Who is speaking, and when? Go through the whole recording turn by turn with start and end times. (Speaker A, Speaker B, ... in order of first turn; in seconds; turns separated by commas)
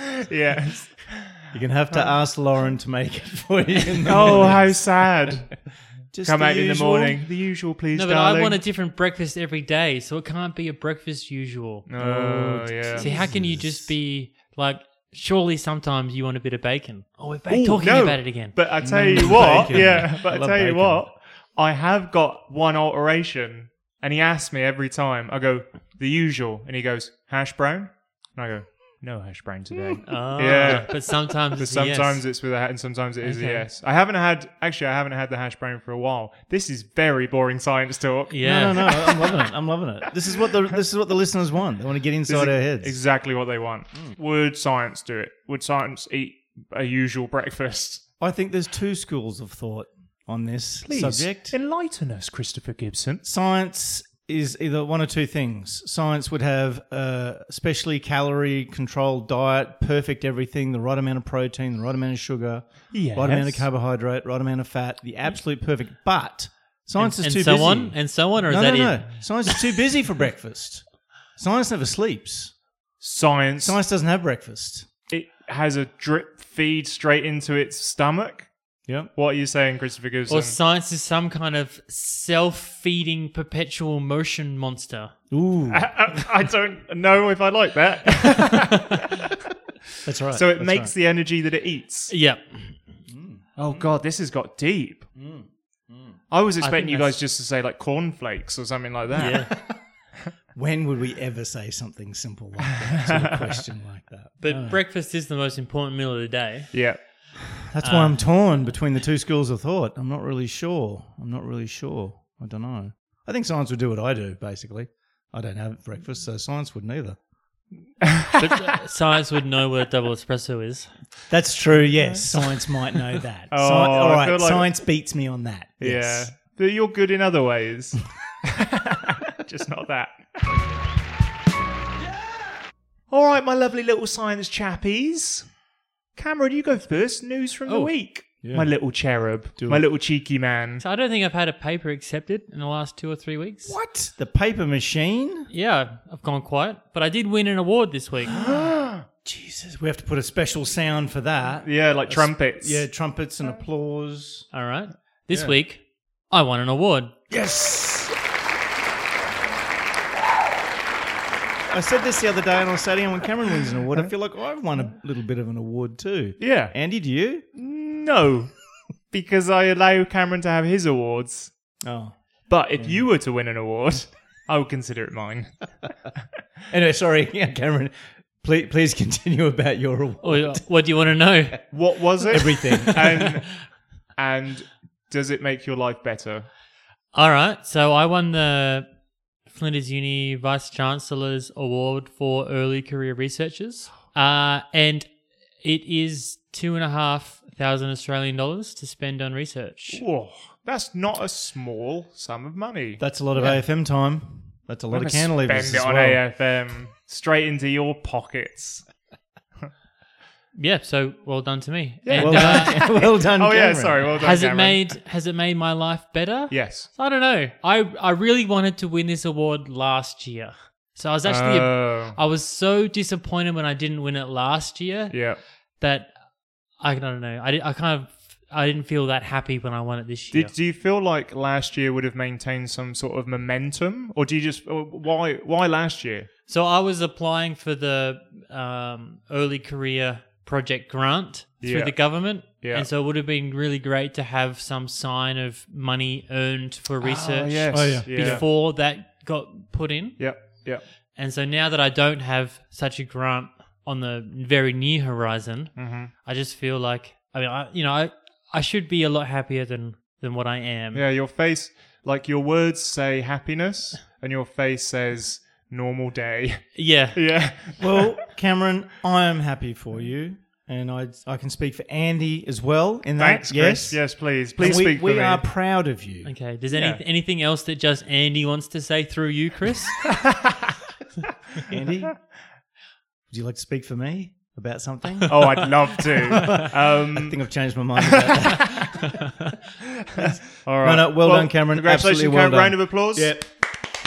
Speaker A: 0.1-1.3, Speaker B: 1.5-5.5, Speaker A: 4.1-5.5, Speaker C: 4.2-4.6, Speaker B: 6.1-7.2, Speaker A: 6.2-8.6, Speaker C: 7.9-12.0, Speaker A: 11.9-13.1, Speaker B: 12.0-13.9, Speaker C: 12.7-19.5, Speaker A: 17.5-38.4, Speaker B: 18.8-21.1, Speaker B: 29.9-30.8, Speaker C: 30.1-32.2, Speaker C: 33.2-33.7, Speaker C: 38.3-39.3, Speaker B: 38.4-43.0, Speaker A: 42.3-48.0, Speaker B: 48.2-51.5, Speaker A: 50.9-53.2, Speaker B: 53.2-72.5, Speaker A: 62.9-63.7, Speaker C: 67.0-69.3, Speaker A: 73.0-73.8, Speaker B: 73.6-74.9, Speaker A: 75.1-78.5, Speaker B: 78.9-79.1, Speaker A: 79.1-80.6, Speaker C: 80.3-85.2, Speaker B: 85.3-85.9, Speaker A: 85.7-89.1, Speaker B: 90.0-90.9, Speaker A: 90.3-92.1, Speaker C: 92.1-92.8, Speaker B: 93.1-93.5, Speaker A: 93.6-95.1, Speaker B: 95.2-96.2, Speaker A: 96.3-99.6, Speaker C: 96.6-97.2, Speaker C: 99.2-99.7, Speaker B: 99.3-99.7, Speaker B: 100.5-104.8, Speaker A: 103.0-103.6, Speaker C: 104.4-106.9, Speaker A: 106.7-107.0, Speaker B: 107.7-117.2, Speaker C: 107.8-108.6, Speaker A: 118.0-118.5, Speaker C: 118.4-120.9, Speaker B: 121.3-126.3, Speaker A: 123.5-124.7, Speaker A: 125.8-130.2, Speaker A: 133.1-135.5, Speaker A: 136.2-140.8, Speaker C: 137.7-137.9, Speaker B: 138.4-139.8, Speaker C: 140.8-143.8, Speaker B: 143.7-145.5, Speaker C: 145.5-148.3, Speaker B: 148.3-148.6, Speaker A: 148.3-149.0, Speaker B: 149.2-154.5, Speaker A: 151.7-152.8, Speaker C: 154.5-157.2, Speaker B: 155.3-155.6, Speaker B: 157.3-158.1, Speaker B: 161.7-167.4, Speaker A: 166.4-166.7, Speaker A: 167.6-168.5, Speaker A: 169.1-171.5, Speaker B: 171.8-172.2, Speaker A: 172.5-175.5, Speaker B: 172.8-173.1, Speaker B: 176.7-180.6, Speaker C: 180.2-181.7, Speaker A: 181.7-183.5, Speaker B: 182.3-183.3, Speaker C: 182.6-183.3, Speaker A: 184.2-186.5, Speaker C: 187.1-188.9, Speaker C: 189.5-195.1, Speaker C: 195.6-200.0, Speaker A: 199.9-203.0, Speaker B: 203.0-206.2, Speaker A: 204.9-208.9, Speaker C: 210.6-212.9, Speaker A: 212.1-214.8, Speaker B: 212.2-214.1, Speaker C: 214.2-226.2, Speaker A: 216.5-216.9, Speaker A: 221.2-222.2, Speaker A: 225.1-225.4, Speaker C: 226.7-230.5, Speaker A: 230.3-236.3, Speaker C: 236.5-250.7, Speaker A: 241.6-242.9, Speaker A: 247.0-248.5, Speaker B: 247.7-248.5, Speaker A: 250.2-250.8, Speaker C: 251.2-261.1, Speaker A: 255.8-256.1, Speaker A: 260.9-268.2, Speaker C: 266.8-267.6, Speaker B: 267.8-276.3, Speaker A: 273.2-275.4, Speaker C: 276.2-280.1, Speaker A: 276.7-277.0, Speaker A: 280.3-280.7, Speaker B: 281.6-282.2, Speaker B: 283.3-289.2, Speaker A: 285.3-287.4, Speaker A: 288.2-288.9, Speaker A: 290.1-293.4, Speaker B: 290.2-293.5